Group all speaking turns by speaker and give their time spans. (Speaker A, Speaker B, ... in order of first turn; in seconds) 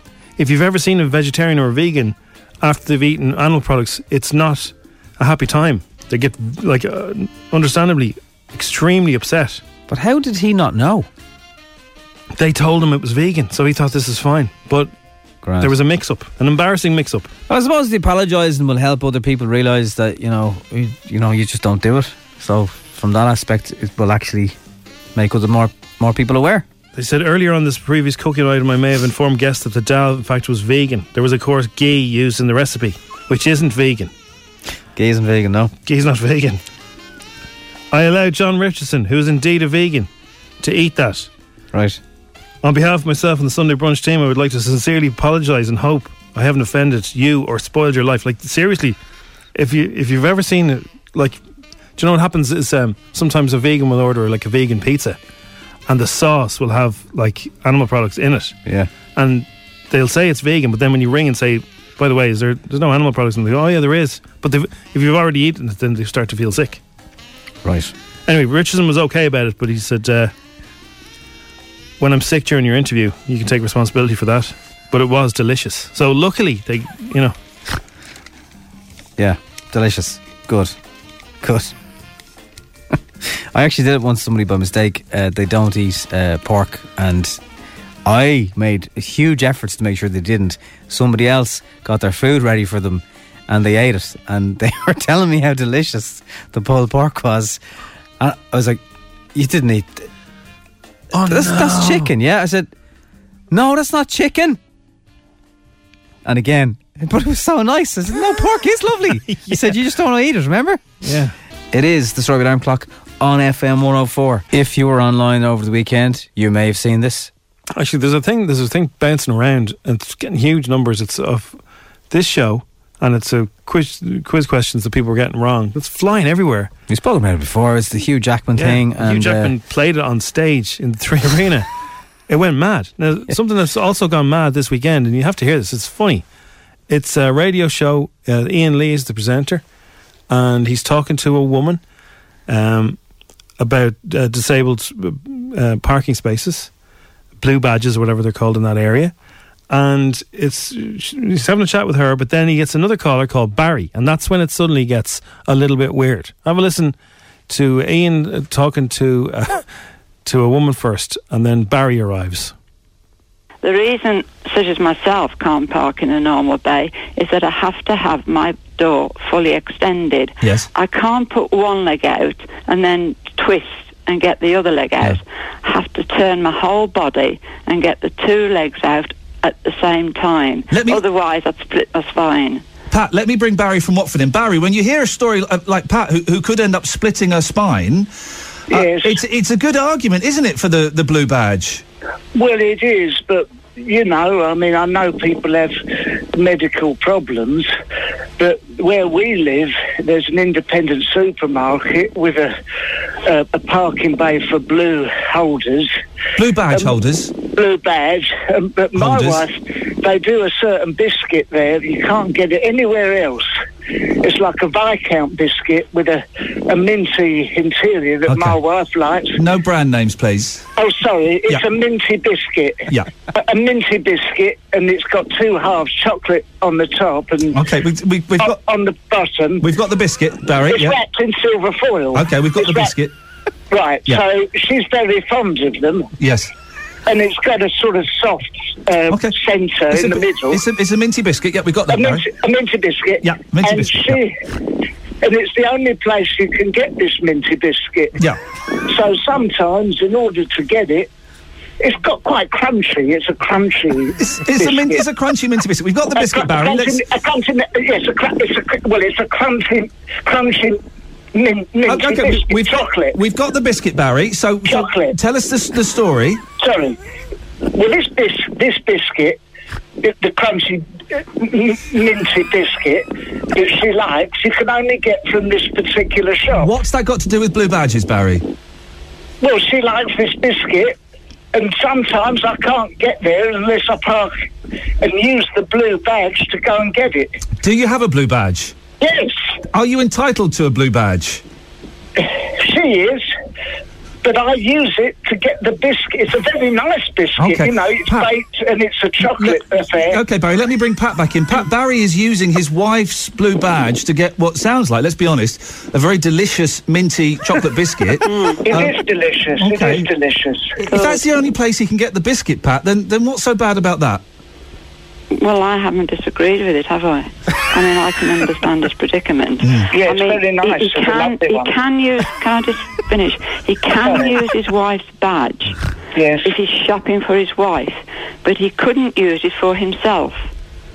Speaker A: 0.4-9.6, 12.3-14.9, 15.6-17.3, 26.9-34.1, 35.9-36.6, 37.9-40.1, 40.6-41.3, 42.6-49.0, 49.5-51.4, 52.0-55.2, 55.9-58.6, 59.1-66.8, 68.3-70.3, 72.0-77.3, 101.1-102.1, 109.1-109.8, 111.0-111.3, 117.8-121.6, 122.1-126.7, 128.6-131.7, 132.3-136.2, 136.9-139.6, 140.3-141.8, 142.5-143.0, 143.6-146.7, 147.4-149.1, 149.7-157.0, 157.5-159.6, 160.2-162.5
Speaker B: 9.9-11.1, 15.4-15.8, 17.5-24.6, 25.1-26.6, 35.0-35.7, 41.7-42.0, 67.7-67.9, 79.2-80.8, 81.4-81.7, 83.2-87.4, 88.1-97.6, 98.2-98.8, 99.3-100.1, 101.3-102.7, 103.5-104.6, 106.2-111.0, 111.7-117.3, 126.9-129.5
Speaker C: 163.6-182.6, 308.2-308.6, 310.8-311.4, 315.4-325.8, 326.4-330.5
Speaker D: 170.4-170.7, 180.7-181.0, 182.9-188.1, 188.7-191.8, 206.4-207.3, 208.9-209.4, 218.3-218.6, 219.4-220.7, 227.5-228.6, 229.6-231.0, 232.1-233.2, 236.2-236.5, 239.1-239.4, 239.9-242.2, 243.2-244.2, 254.2-257.0, 261.9-266.4, 276.5-278.4, 287.6-288.8, 289.7-291.4, 297.4-298.3, 299.2-309.0, 309.6-310.1, 310.9-314.2
Speaker E: 188.7-189.2, 192.4-195.8, 196.4-197.7, 198.4-202.6, 203.2-205.9, 207.5-213.5, 214.2-219.4, 220.8-227.6, 228.4-229.7, 230.6-232.9, 233.7-236.1, 237.1-240.6, 241.9-244.4, 245.2-248.2, 248.9-251.1, 251.8-255.0, 256.1-260.8, 261.4-263.2, 264.7-265.2, 266.6-267.0, 267.8-269.4, 270.0-276.7, 279.4-281.0, 281.5-284.3, 285.0-287.4, 289.0-289.4, 292.2-293.3, 294.2-300.2, 308.6-310.8, 319.9-321.7, 324.0-324.4, 326.2-326.5